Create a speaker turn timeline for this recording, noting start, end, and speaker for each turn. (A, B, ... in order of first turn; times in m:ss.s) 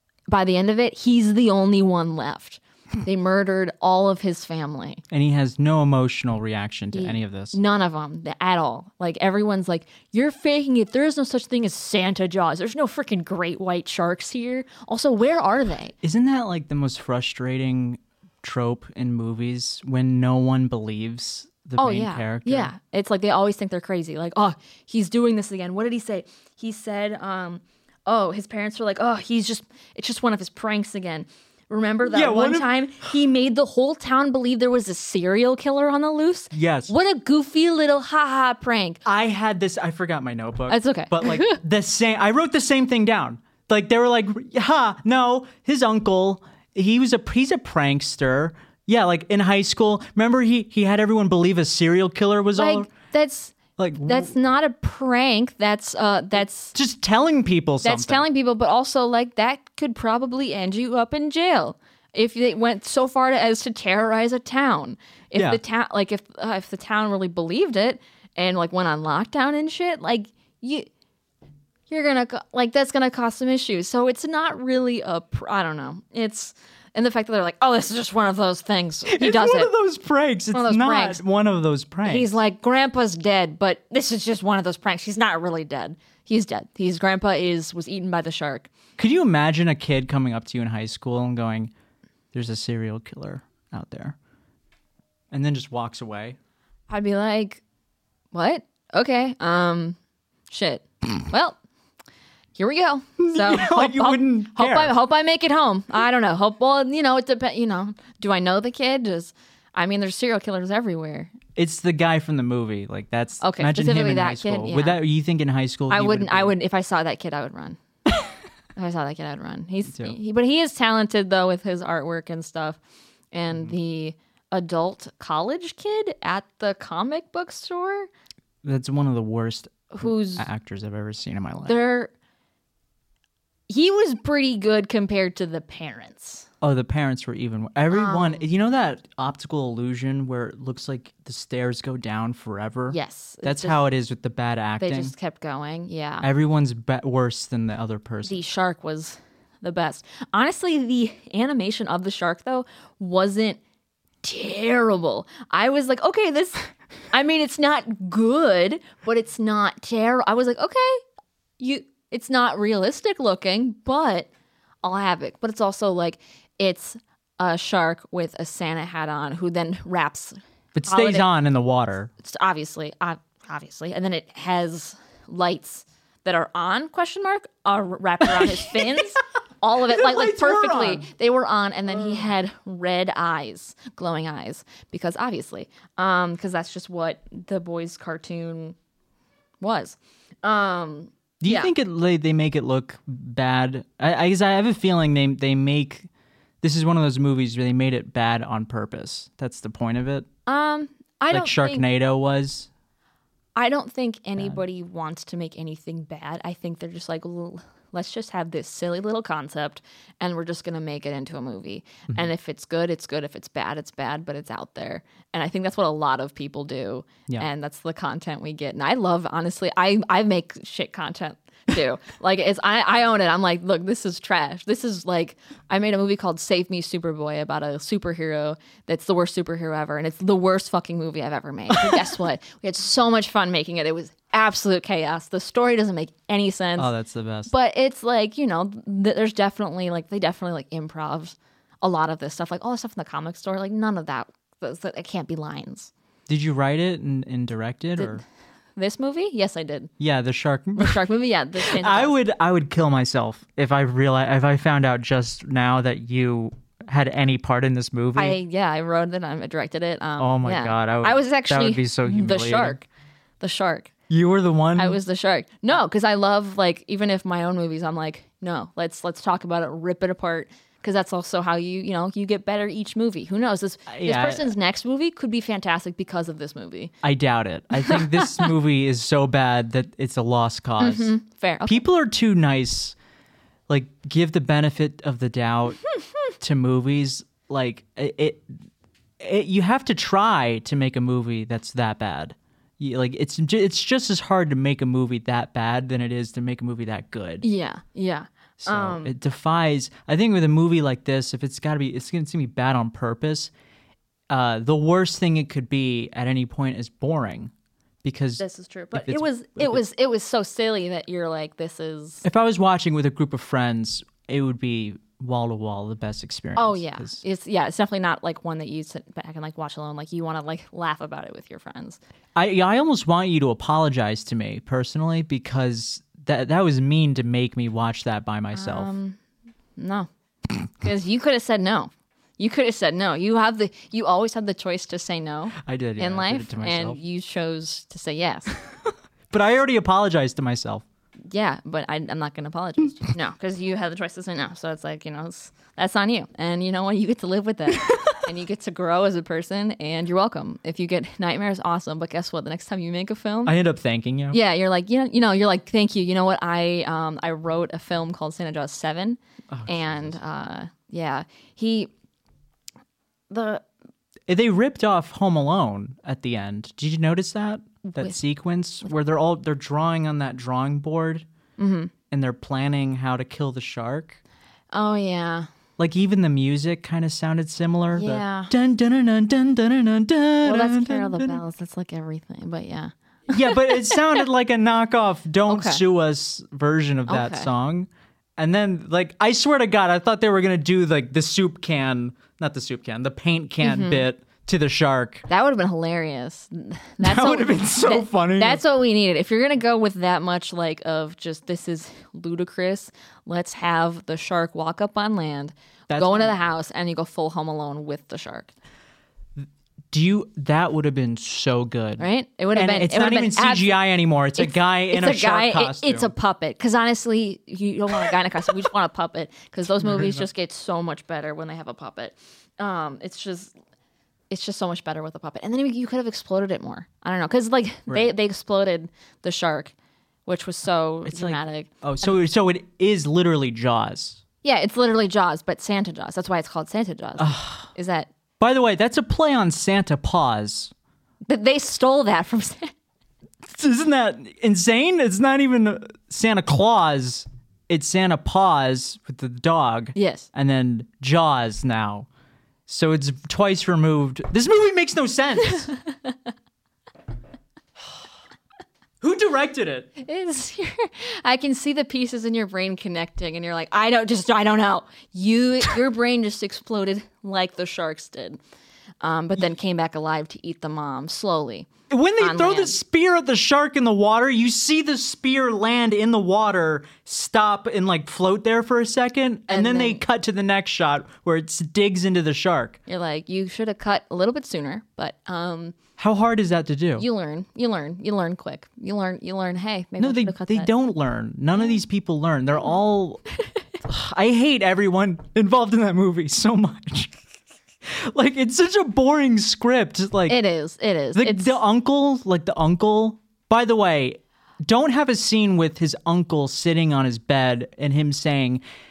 0:00.3-0:05.0 A
0:05.1-0:07.6 B
0:06.9-0:15.9 A
0:16.0-0:22.7 B
0:21.8-0:39.0 A
0:32.0-0:32.7 B
0:36.5-0:36.9 B
0:39.0-0:52.9 B
0:40.7-0:41.6 A
0:52.6-0:56.7 A
0:53.8-0:54.3 B
0:56.7-0:58.2 B
0:57.8-1:10.9 A
1:11.9-1:19.7 A
1:19.1-1:22.4 B
1:20.5-1:21.2 A
1:22.0-1:28.7 A
1:29.0-1:31.7 B
1:32.3-1:34.1 B
1:35.3-1:36.4 B
1:36.9-1:37.6 A
1:38.3-1:40.0 A
1:40.5-1:41.6 A
1:42.6-1:51.3 A
1:43.2-1:44.9 B
1:51.5-1:56.6 B
1:53.4-1:55.0 A
1:55.9-1:57.8 A
1:58.8-2:02.8 A
1:59.9-2:00.2 B
2:03.3-2:08.1 A
2:08.6-2:11.8 B
2:09.9-2:10.4 A
2:11.6-2:12.1 A
2:13.7-2:16.4 A
2:16.6-2:25.1 B
2:17.9-2:18.5 A
2:22.9-2:23.8 A
2:24.8-2:26.3 A
2:26.2-2:28.4 B
2:28.2-2:33.6 A
2:34.2-2:41.0 A
2:41.6-2:44.3 A
2:44.8-2:51.2 A
2:50.7-2:52.1 B
2:52.2-3:08.8 A
2:58.3-2:59.0 B
2:59.9-3:01.0 B
3:01.9-3:02.2 B
3:09.6-3:11.7 A
3:11.4-3:16.1 B
3:16.6-3:20.2 B
3:20.4-3:21.8 A
3:21.3-3:22.7 B
3:23.6-3:56.9 A
3:56.8-3:57.5 B
3:57.5-4:05.9 A
4:06.3-4:08.2 B
4:08.0-4:08.2 A
4:08.8-4:09.9 A
4:10.0-4:11.0 B
4:10.8-4:12.2 A
4:11.6-4:18.4 B
4:18.2-4:22.8 A
4:20.2-4:22.8 B
4:23.4-4:23.9 A
4:24.1-4:25.0 B
4:24.8-4:36.9 A
4:33.9-4:34.5 B
4:37.0-4:41.1 B
4:37.8-4:38.5 A
4:40.8-4:41.8 A
4:41.6-4:42.9 B
4:43.7-4:48.6 B
4:49.2-4:57.4 B
4:57.4-4:59.1 A
4:58.6-5:03.5 B
5:04.3-5:07.5 B
5:08.0-5:09.8 B
5:08.4-5:12.2 A
5:12.2-5:17.2 B
5:16.6-5:22.0 A
5:22.3-5:28.9 B
5:28.5-5:29.2 A
5:29.8-5:30.1 A
5:30.8-5:38.5 A
5:35.6-5:37.0 B
5:39.3-5:40.8 B
5:41.3-5:53.6 A
5:47.7-5:48.1 B
5:53.4-5:54.4 B
5:54.3-6:01.9 A
5:59.5-6:00.2 B
6:03.3-6:03.6 A
6:04.3-6:11.2 B
6:07.8-6:08.2 A
6:11.6-6:11.9 A
6:12.1-6:14.2 B
6:14.7-6:15.5 A
6:15.8-6:21.4 B
6:17.9-6:18.5 A
6:20.4-6:24.0 A
6:23.3-6:35.3 B
6:25.5-6:25.8 A
6:27.1-6:27.5 A
6:33.6-6:34.0 A
6:35.3-6:48.5 A
6:37.0-6:38.6 B
6:45.9-6:46.3 B
6:49.4-6:56.1 B
6:52.0-6:53.8 A
6:54.4-7:03.5 A
6:59.8-7:00.3 B
7:04.3-7:09.7 A
7:10.2-7:12.1 A
7:11.1-7:14.2 B
7:14.4-7:18.1 A
7:17.2-7:17.7 B
7:18.4-7:20.7 B
7:21.3-7:22.7 A
7:23.4-7:32.1 B
7:29.9-7:30.3 A
7:32.7-7:35.7 B
7:39.0-7:39.9 B
7:40.0-7:48.4 A
7:49.0-7:52.8 A
7:51.9-8:02.8 B
7:59.5-8:00.0 A
8:02.9-8:05.8 A
8:06.0-8:07.0 B
8:07.0-8:10.7 A
8:10.0-8:13.2 B
8:13.8-8:17.1 B
8:17.8-8:20.4 B
8:20.3-8:21.6 A
8:21.1-8:28.6 B